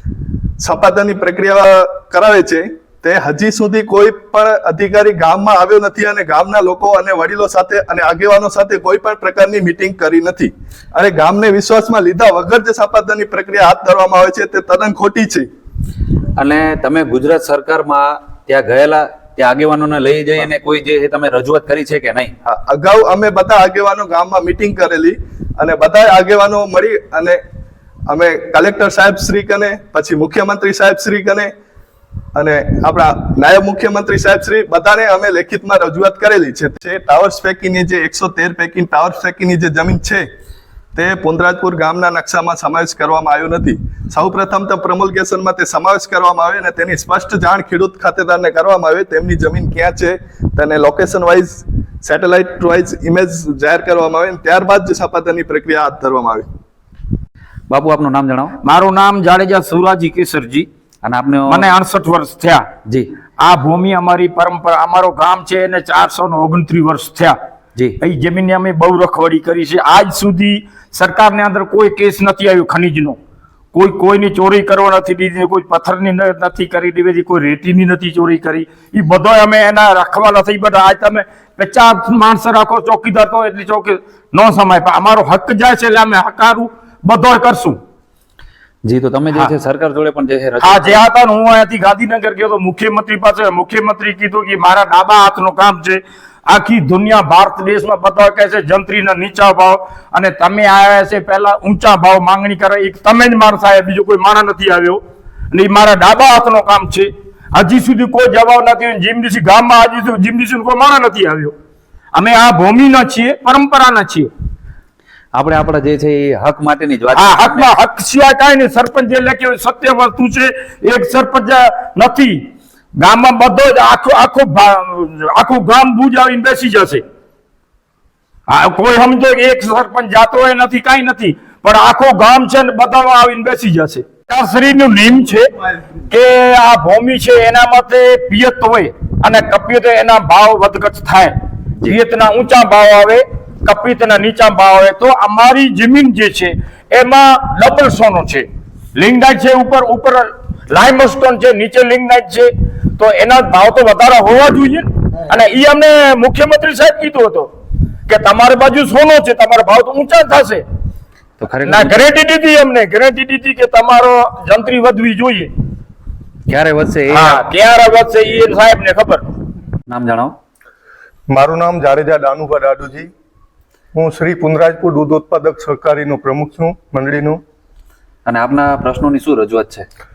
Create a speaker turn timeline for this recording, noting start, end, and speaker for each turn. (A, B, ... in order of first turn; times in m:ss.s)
0:00.6-0:15.5 A
0:16.4-0:22.3 B
0:22.5-0:27.4 A
0:28.1-0:31.5 A
0:32.4-0:40.2 A
0:41.0-0:56.5 A
0:57.7-0:58.6 B
0:58.6-1:00.7 C
1:01.0-1:01.6 B
1:01.5-1:02.7 C
1:03.4-1:07.4 C
1:08.0-1:13.2 C
1:13.7-1:27.8 C
1:28.9-1:31.0 B
1:30.6-1:45.0 C
1:45.5-1:51.6 C
1:52.1-1:54.3 C
1:55.3-1:57.7 B
1:57.1-2:02.5 C
2:03.0-2:07.0 C
2:08.5-2:37.5 C
2:38.1-2:40.6 C
2:41.4-2:42.0 B
2:41.6-2:45.5 C
2:46.5-2:47.4 B
2:47.1-2:49.2 C
2:49.9-2:50.4 B
2:51.3-2:53.1 D
2:53.9-2:57.4 D
2:58.3-2:59.9 B